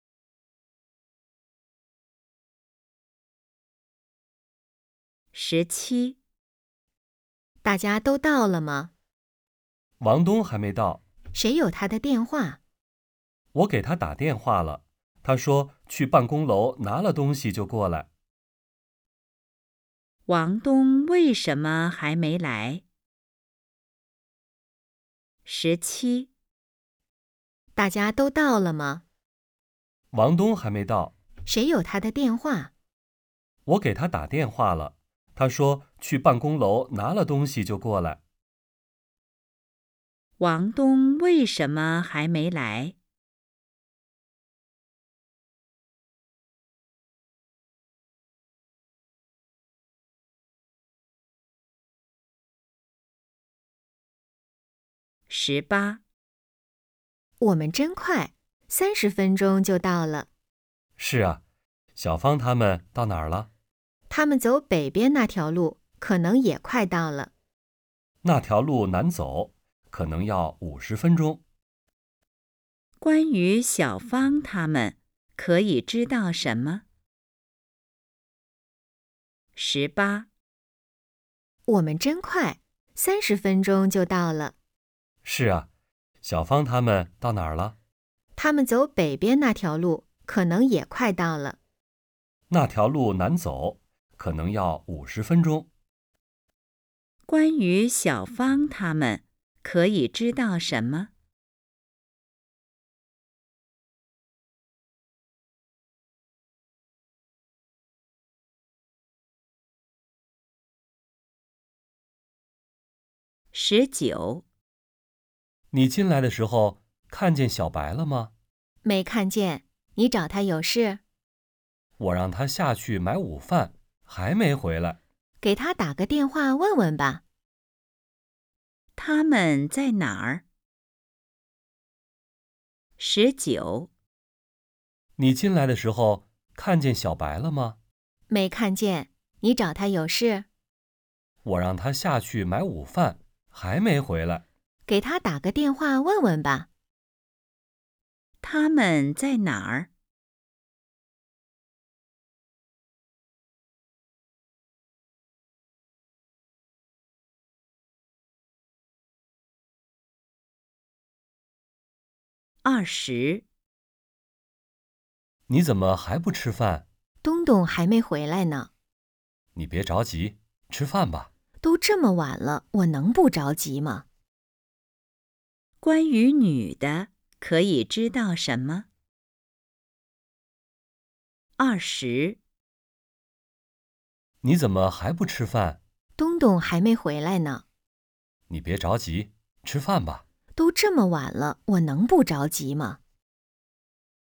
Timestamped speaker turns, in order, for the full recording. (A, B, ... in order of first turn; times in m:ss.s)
0:05.3-0:06.2 A
0:07.6-0:08.9 B
0:10.0-0:11.0 C
0:11.4-0:12.6 B
0:13.5-0:18.1 C
0:20.3-0:22.8 A
0:25.5-0:26.3 A
0:27.8-0:29.0 B
0:30.1-0:31.1 C
0:31.5-0:32.7 B
0:33.7-0:38.2 C
0:40.4-0:43.0 A
0:55.3-0:56.0 A
0:57.4-1:00.3 B
1:01.0-1:01.4 C
1:02.0-1:03.5 C
1:04.1-1:07.3 B
1:08.2-1:11.4 C
1:13.0-1:16.8 A
1:19.6-1:20.3 A
1:21.7-1:24.5 B
1:25.2-1:25.7 C
1:26.2-1:27.8 C
1:28.4-1:31.6 B
1:32.5-1:35.7 C
1:37.3-1:41.1 A
1:53.5-1:54.4 A
1:55.7-1:58.3 C
1:58.8-2:01.0 B
2:02.0-2:05.0 C
2:05.4-2:07.2 B
2:09.0-2:10.4 A
2:13.0-2:13.9 A
2:15.2-2:17.8 C
2:18.3-2:20.5 B
2:21.4-2:24.4 C
2:24.9-2:26.7 B
2:28.4-2:29.9 A
2:42.6-2:43.4 A
2:45.5-2:46.9 C
2:47.2-2:48.7 B
2:49.6-2:51.3 C
2:51.6-2:54.0 B
2:55.8-2:58.9 A
3:01.6-3:02.4 A
3:04.4-3:05.8 C
3:06.2-3:07.6 B
3:08.5-3:10.2 C
3:10.6-3:13.0 B